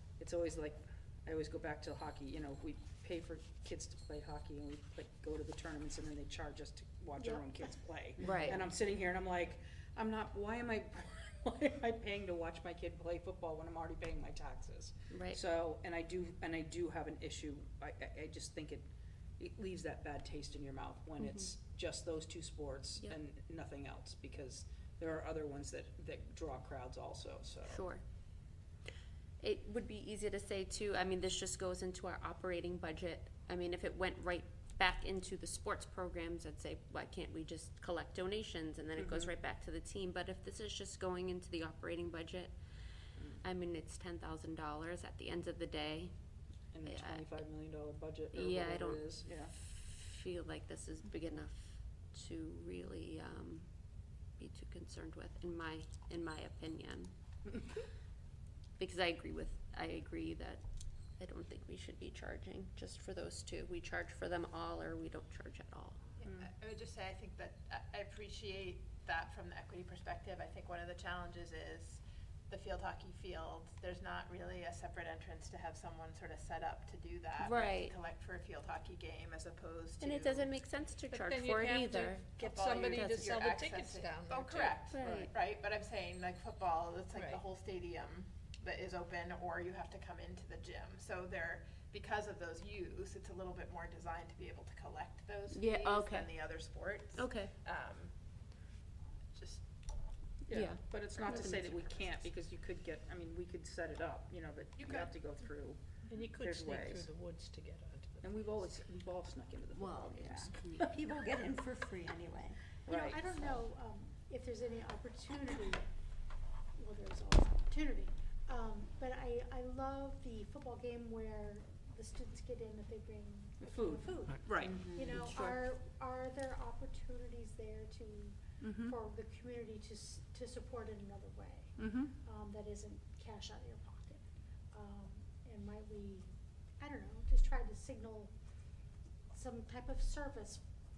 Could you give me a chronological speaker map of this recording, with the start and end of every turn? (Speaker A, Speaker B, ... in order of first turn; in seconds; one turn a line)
Speaker A: 0.2-18.9
Speaker B: 7.2-7.8
Speaker C: 8.2-8.5
Speaker D: 8.2-8.6
Speaker D: 15.1-15.4
Speaker A: 19.4-27.9
Speaker D: 21.2-21.5
Speaker D: 27.7-28.0
Speaker D: 29.4-42.5
Speaker A: 39.0-39.3
Speaker D: 43.4-46.1
Speaker A: 46.7-49.5
Speaker D: 46.9-47.3
Speaker D: 48.3-53.7
Speaker D: 54.4-57.1
Speaker D: 58.8-60.6
Speaker D: 61.2-66.2
Speaker E: 66.2-80.4
Speaker D: 77.4-78.0
Speaker D: 80.0-83.4
Speaker F: 81.1-85.2
Speaker E: 82.3-98.1
Speaker D: 84.9-85.3
Speaker F: 87.1-87.4
Speaker D: 95.5-96.5
Speaker D: 97.1-97.5
Speaker E: 99.3-99.6
Speaker A: 100.5-107.1
Speaker D: 100.5-102.1
Speaker E: 104.8-105.0
Speaker F: 106.1-108.3
Speaker A: 108.2-110.9
Speaker C: 109.7-112.7
Speaker A: 112.9-113.6
Speaker B: 112.9-115.9
Speaker B: 116.8-136.3
Speaker A: 123.6-124.8
Speaker C: 124.6-125.5
Speaker A: 128.6-129.0
Speaker A: 131.8-132.1
Speaker B: 136.8-138.3
Speaker B: 139.3-140.6